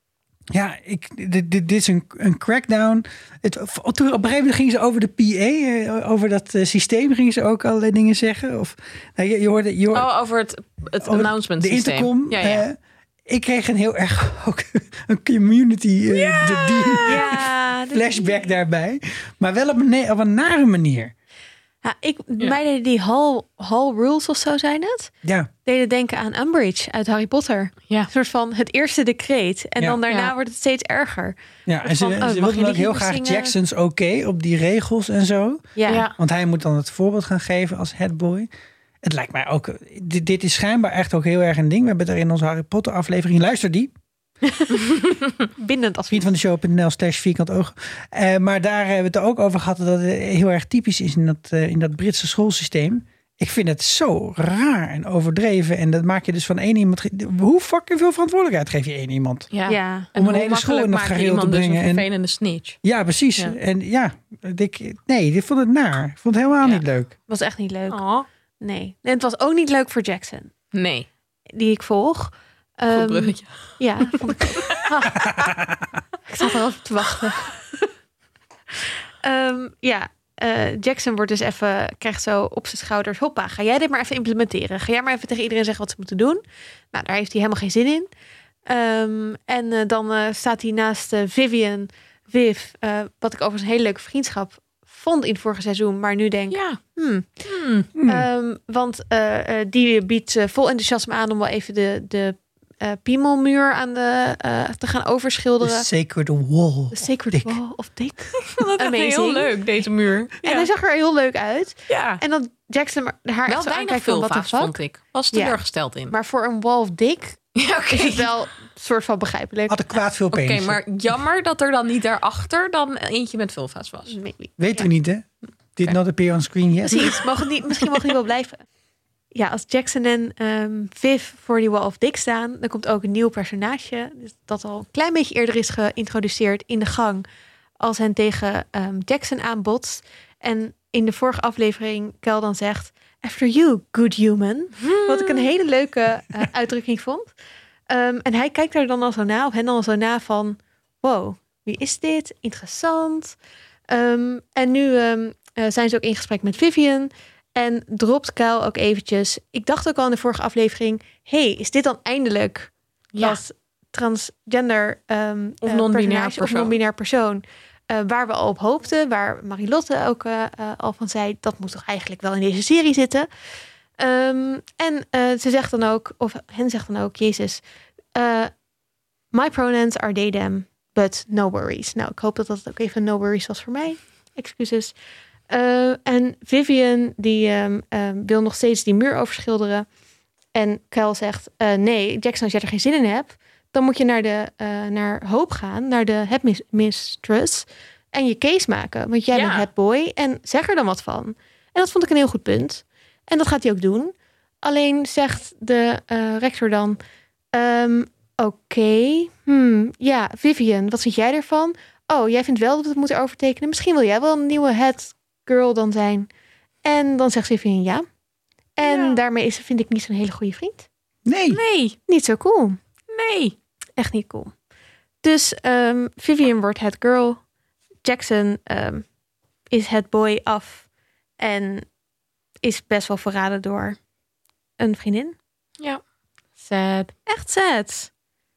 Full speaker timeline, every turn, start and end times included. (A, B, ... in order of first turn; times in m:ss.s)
0:00.5-0:10.1 A
0:09.9-0:12.6 B
0:11.0-0:21.1 A
0:16.1-0:17.2 B
0:17.0-0:18.5 C
0:21.8-0:25.1 C
0:25.6-0:33.6 C
0:31.6-0:38.5 A
0:35.8-0:36.1 C
0:35.9-0:36.1 B
0:39.0-0:43.9 A
0:44.5-0:45.2 B
0:45.6-0:46.4 C
0:46.1-0:59.5 A
0:59.5-1:02.8 B
0:59.7-1:00.1 C
1:00.1-1:02.1 A
1:02.8-1:07.1 A
1:07.3-1:08.0 C
1:07.9-1:08.2 B
1:08.6-1:10.5 C
1:10.7-1:11.1 B
1:11.5-1:15.4 C
1:12.9-1:14.8 B
1:15.3-1:15.8 A
1:16.3-1:17.6 C
1:19.2-1:28.1 C
1:28.6-1:37.4 C
1:36.5-1:36.8 B
1:37.4-1:37.9 B
1:37.9-1:38.3 A
1:38.0-1:45.9 C
1:45.6-1:47.6 A
1:46.9-1:49.6 C
1:48.4-1:50.7 B
1:50.4-1:54.8 C
1:51.9-1:52.2 B
1:53.5-1:56.1 B
1:55.3-1:59.8 C
1:57.6-1:58.3 B
1:59.7-2:00.8 A
2:00.3-2:04.2 B
2:04.1-2:04.9 C
2:04.6-2:07.2 A
2:06.9-2:08.6 C
2:09.3-2:17.2 C
2:17.8-2:27.3 C
2:24.8-2:25.5 B
2:27.9-2:33.4 C
2:33.9-2:53.3 C
2:43.1-2:43.4 B
2:45.6-2:46.8 B
2:54.0-2:57.6 C
2:58.1-2:58.5 C
2:59.3-3:04.9 C
3:05.5-3:09.9 C
3:10.5-3:27.0 C
3:19.3-3:19.7 B
3:27.5-3:36.3 C
3:36.8-3:38.0 C
3:38.8-3:40.9 C
3:38.8-3:39.2 B
3:41.2-3:41.6 A
3:41.5-3:42.0 B
3:42.1-3:42.8 C
3:43.1-3:43.5 B
3:44.0-3:44.5 C
3:45.2-3:47.4 C
3:48.0-3:49.0 C
3:49.7-3:50.9 C
3:51.4-3:51.9 C
3:52.6-3:54.0 C
3:54.8-3:55.4 C
3:56.6-3:57.1 B
3:57.3-3:58.1 C